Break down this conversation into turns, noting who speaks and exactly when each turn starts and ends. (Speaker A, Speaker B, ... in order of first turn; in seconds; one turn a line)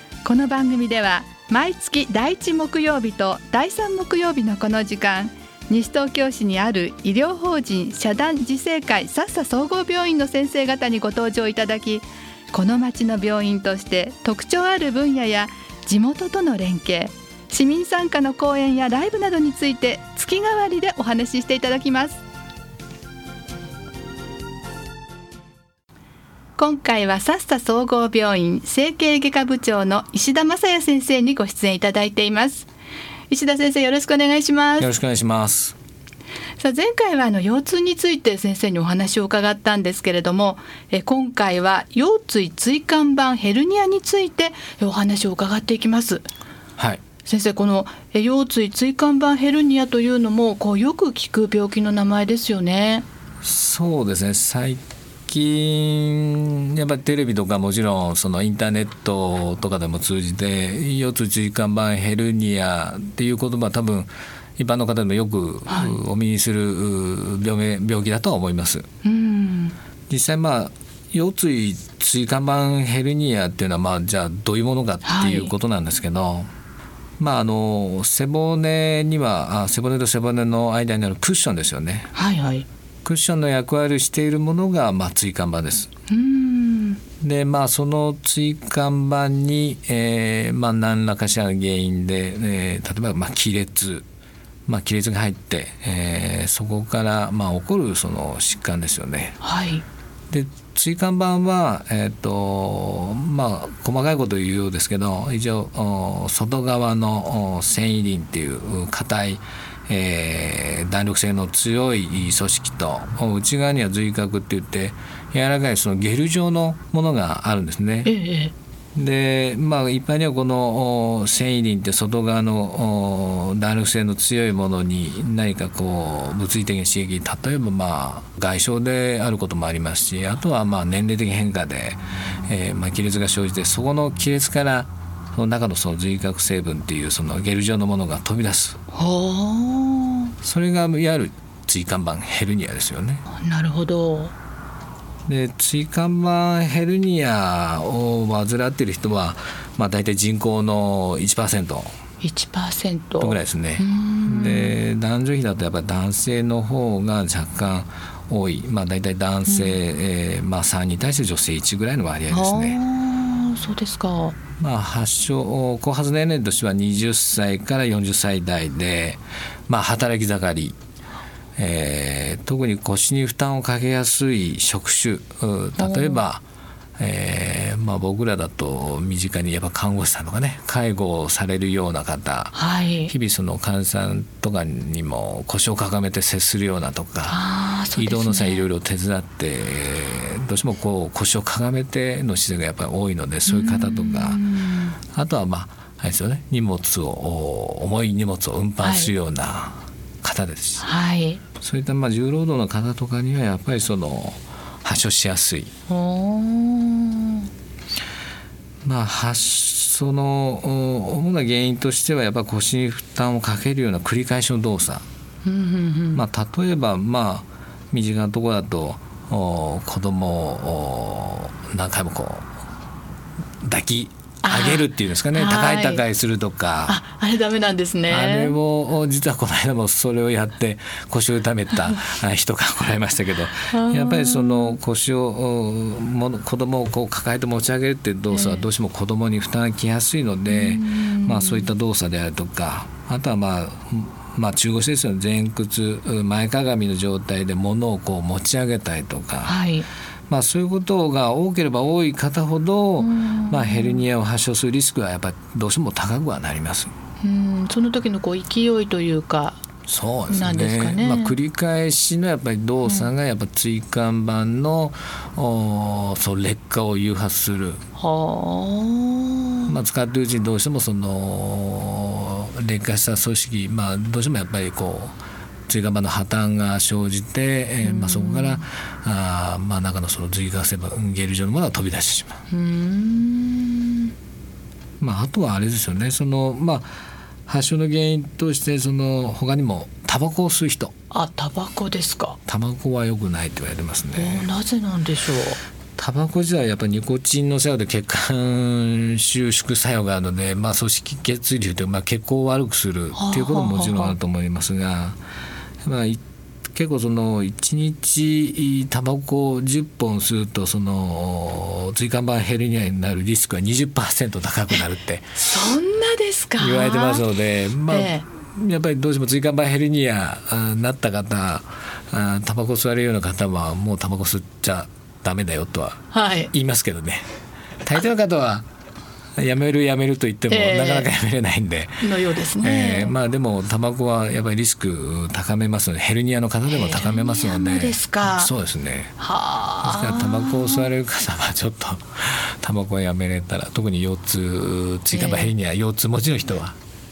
Speaker A: 0.2-22.2
Speaker A: 26.6-32.7
Speaker A: 33.3-34.9
Speaker B: 34.8-35.7
Speaker A: 36.6-46.3
Speaker A: 47.2-53.0
Speaker B: 53.4-68.8
Speaker A: 65.7-66.0
Speaker A: 69.0-69.7
Speaker B: 70.1-76.5
Speaker A: 75.0-75.5
Speaker B: 77.2-82.1
Speaker A: 82.1-82.7
Speaker B: 83.0-85.9
Speaker A: 86.1-87.0
Speaker B: 87.2-94.0
Speaker B: 94.7-99.4
Speaker A: 99.4-99.8
Speaker B: 100.3-118.1
Speaker A: 118.0-118.5
Speaker B: 119.0-138.8
Speaker A: 138.9-140.3
Speaker B: 140.4-143.2
Speaker A: 143.3-144.3
Speaker B: 145.2-151.9
Speaker A: 152.2-154.8
Speaker B: 153.2-162.8
Speaker A: 159.5-159.8
Speaker A: 162.3-164.3
Speaker B: 164.6-170.8
Speaker B: 171.6-176.4
Speaker A: 175.8-176.2
Speaker B: 177.0-182.5
Speaker A: 182.5-183.1
Speaker B: 183.1-187.4
Speaker A: 187.3-188.6
Speaker B: 187.9-194.4
Speaker A: 193.5-194.9
Speaker B: 195.1-200.8
Speaker A: 198.8-199.1
Speaker A: 200.8-201.4
Speaker B: 201.6-205.7
Speaker A: 205.9-207.5
Speaker B: 208.8-215.0
Speaker A: 215.4-216.2
Speaker B: 216.1-222.5
Speaker B: 223.6-227.0
Speaker A: 224.4-226.0
Speaker A: 226.9-228.5
Speaker B: 228.1-249.5
Speaker A: 233.7-234.8
Speaker A: 238.3-238.7
Speaker A: 240.5-241.7
Speaker A: 249.4-249.9
Speaker B: 250.3-256.9
Speaker A: 253.0-254.1
Speaker A: 257.2-259.6
Speaker B: 259.9-267.8
Speaker A: 260.3-261.4
Speaker A: 262.8-263.1
Speaker A: 268.0-269.7
Speaker B: 269.7-275.1
Speaker B: 275.7-282.4
Speaker A: 277.8-278.6
Speaker A: 282.5-284.1
Speaker B: 285.0-286.9
Speaker B: 287.5-290.9
Speaker A: 291.1-292.4
Speaker B: 292.5-294.5
Speaker A: 294.1-295.6
Speaker B: 296.0-305.2
Speaker A: 303.1-304.1
Speaker B: 305.8-306.2
Speaker B: 306.7-315.4
Speaker A: 315.4-317.2
Speaker B: 316.6-327.2
Speaker A: 317.9-318.2
Speaker A: 326.1-326.5
Speaker B: 327.8-328.7
Speaker B: 329.4-332.1
Speaker A: 330.5-331.1
Speaker A: 332.0-333.1
Speaker B: 332.6-339.1
Speaker A: 336.7-338.5
Speaker A: 339.2-340.9
Speaker B: 339.8-346.8
Speaker A: 345.1-345.5